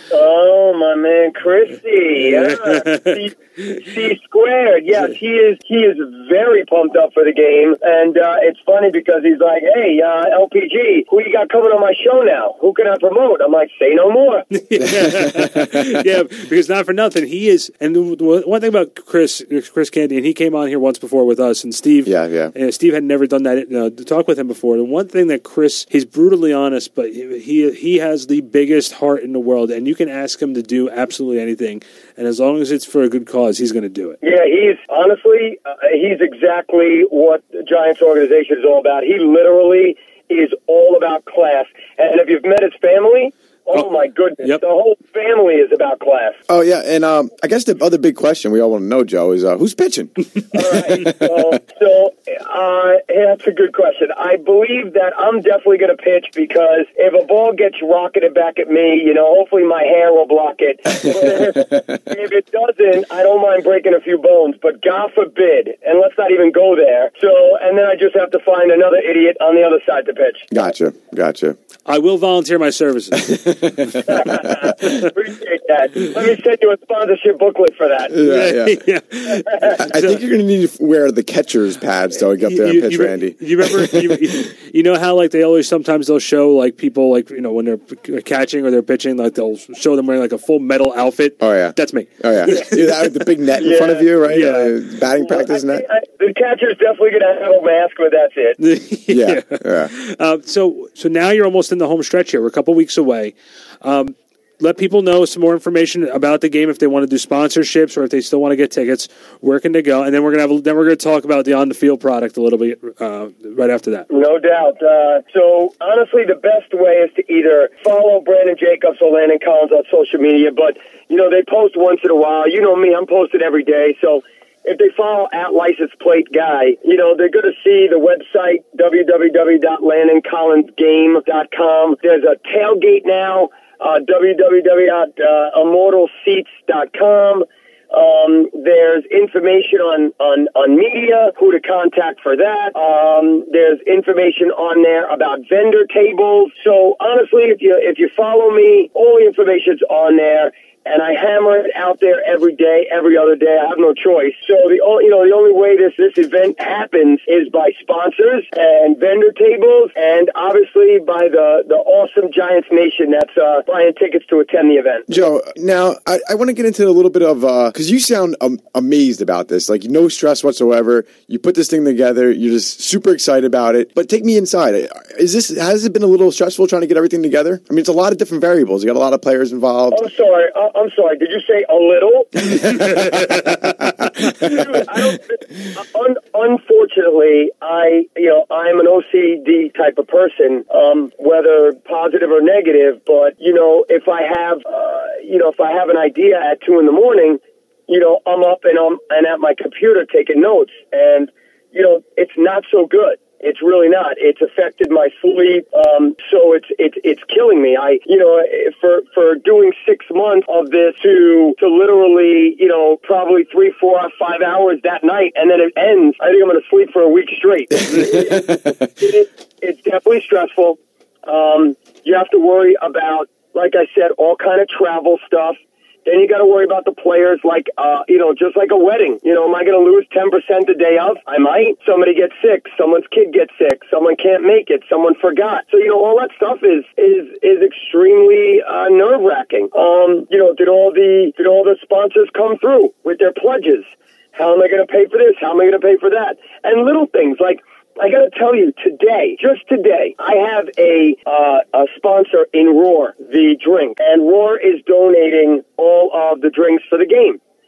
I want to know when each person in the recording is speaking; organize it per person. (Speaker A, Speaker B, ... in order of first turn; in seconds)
Speaker A: 0.1-14.5, 34.2-46.4, 50.5-70.5, 74.1-78.2, 79.3-79.7, 93.6-94.1, 95.1-98.6, 114.1-165.2, 179.9-182.6, 184.4-257.4
Speaker B: 2.1-3.7, 14.5-34.2, 71.8-73.3, 78.2-80.2, 82.4-93.0, 94.2-94.7, 98.6-114.1, 182.8-183.8
Speaker C: 22.1-22.5, 46.5-51.5, 70.5-71.5, 73.2-74.7, 78.1-78.8, 79.7-84.2, 91.4-95.8, 99.1-99.9, 165.1-180.0, 182.8-183.2, 217.9-218.6